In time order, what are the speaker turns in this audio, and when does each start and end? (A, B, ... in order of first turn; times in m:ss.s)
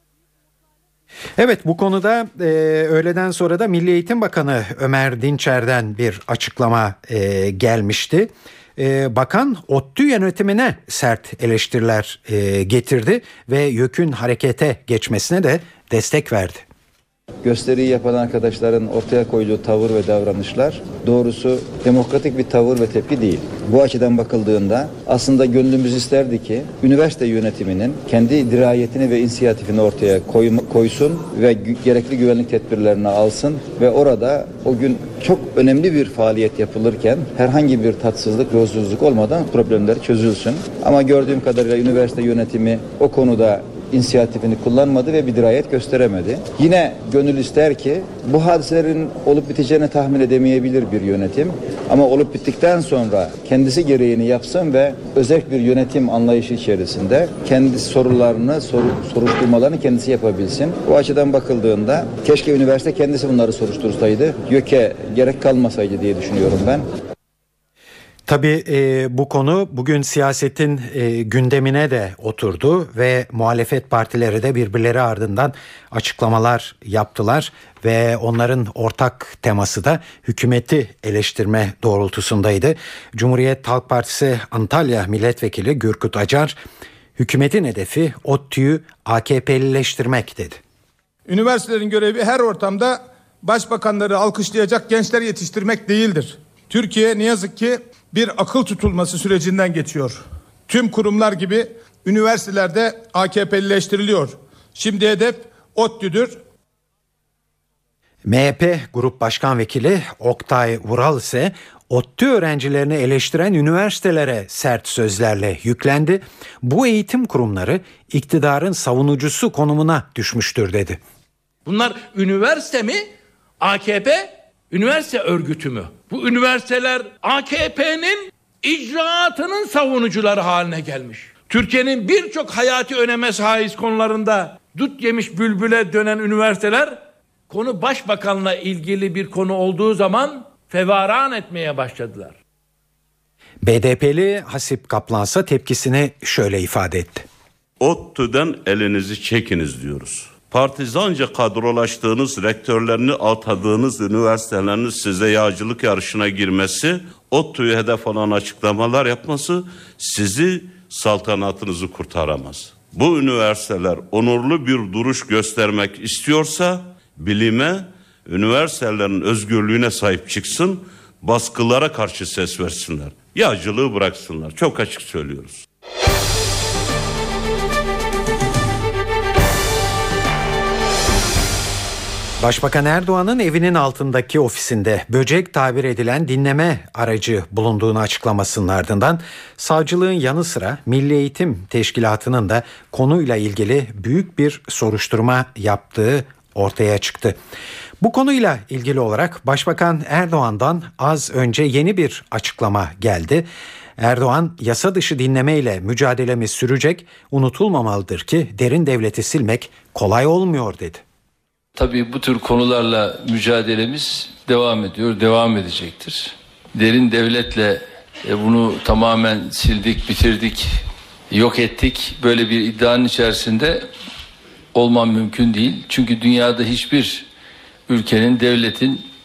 0:01.4-0:16.6 A
0:17.4-1:06.9 B
1:08.3-1:26.6 A
1:27.2-1:30.6 A
1:31.3-1:46.4 C
1:48.2-2:01.0 A
2:01.7-2:03.1 D
2:03.6-2:22.3 D
2:23.6-2:27.3 A
2:27.8-2:55.6 E
3:02.4-3:17.4 A
3:18.0-3:23.5 A
3:24.0-3:31.0 A
3:31.8-3:40.8 F
3:41.3-3:43.9 F
3:44.7-3:47.3 F
3:47.9-3:49.1 F